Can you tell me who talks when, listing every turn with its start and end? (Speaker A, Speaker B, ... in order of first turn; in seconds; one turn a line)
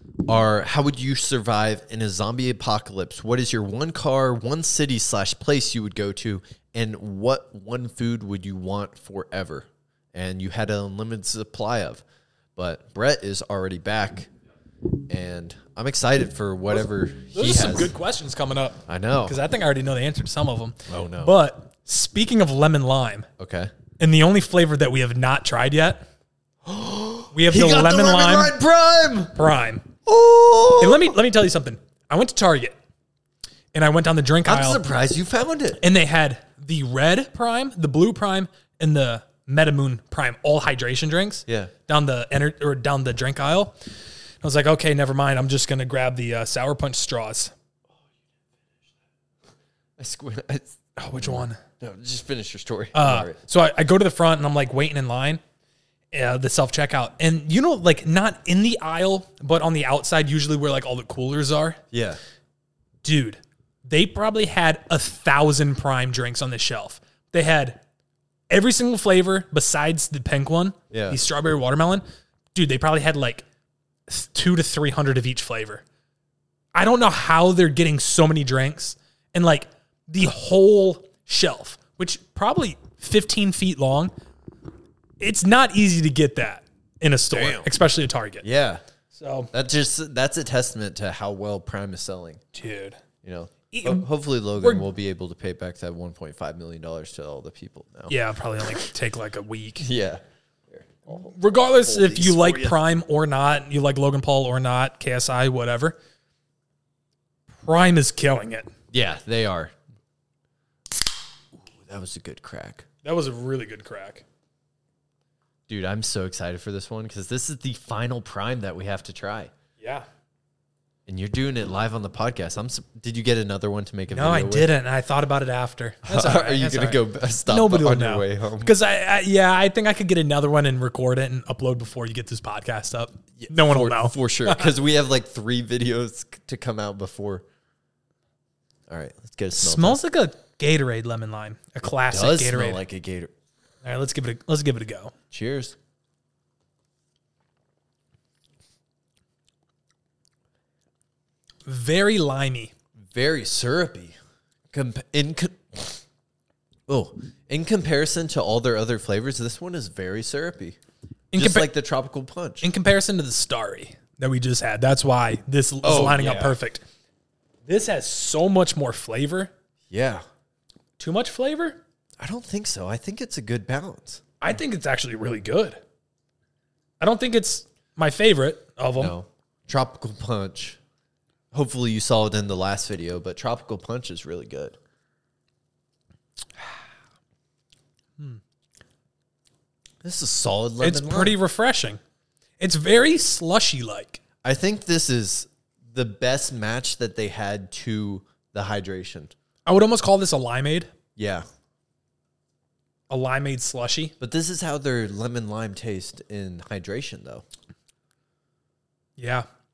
Speaker A: 0.3-12.0
Speaker A: 12.6-14.3
Speaker A: 15.1-17.9
Speaker B: 16.7-23.3
Speaker A: 18.9-19.4
Speaker A: 20.9-21.4
Speaker A: 23.4-23.7
Speaker B: 24.0-26.1
Speaker A: 26.6-29.4
Speaker B: 27.3-28.6
Speaker B: 29.4-29.9
Speaker A: 30.1-31.1
Speaker B: 30.8-32.8
Speaker B: 33.7-34.8
Speaker A: 34.4-35.8
Speaker B: 35.8-43.8
Speaker A: 41.5-41.7
Speaker B: 44.4-47.5
Speaker A: 50.0-53.4
Speaker B: 51.0-51.6
Speaker B: 52.9-55.4
Speaker B: 56.1-61.8
Speaker A: 61.9-62.2
Speaker B: 63.0-67.8
Speaker B: 68.5-73.5
Speaker A: 70.9-71.2
Speaker B: 74.1-75.8
Speaker B: 76.7-84.1
Speaker B: 85.2-88.5
Speaker A: 87.3-87.7
Speaker A: 88.4-88.8
Speaker B: 89.1-89.5
Speaker A: 89.5-92.4
Speaker B: 92.5-93.0
Speaker A: 93.2-98.2
Speaker B: 93.7-94.1
Speaker B: 94.6-94.9
Speaker B: 98.1-99.9
Speaker A: 99.8-102.8
Speaker B: 101.1-106.0
Speaker B: 107.6-108.7
Speaker A: 108.9-109.7
Speaker A: 111.7-112.9
Speaker B: 113.0-114.2
Speaker A: 115.7-119.5
Speaker B: 119.8-120.1
Speaker A: 121.1-124.7
Speaker B: 124.1-134.7
Speaker A: 126.1-128.7
Speaker A: 133.4-137.4
Speaker A: 138.9-140.0
Speaker B: 139.6-142.8
Speaker A: 142.1-143.3
Speaker B: 143.8-145.1
Speaker A: 145.3-145.8
Speaker B: 151.7-152.7
Speaker A: 153.1-154.2
Speaker A: 154.7-156.0
Speaker A: 156.9-160.8
Speaker B: 161.3-161.7
Speaker A: 161.4-162.7
Speaker B: 162.6-166.8
Speaker A: 165.8-166.6
Speaker B: 167.7-169.5
Speaker A: 169.9-170.2
Speaker B: 171.0-171.8
Speaker A: 172.2-174.2
Speaker B: 174.4-175.8
Speaker B: 177.0-179.2
Speaker A: 179.0-180.8
Speaker A: 181.5-184.8
Speaker A: 190.0-191.4
Speaker B: 190.8-192.0
Speaker B: 192.6-194.2
Speaker A: 194.4-199.3
Speaker B: 199.7-200.9
Speaker A: 201.2-201.4
Speaker B: 203.1-204.1
Speaker A: 204.2-207.4
Speaker B: 209.2-209.5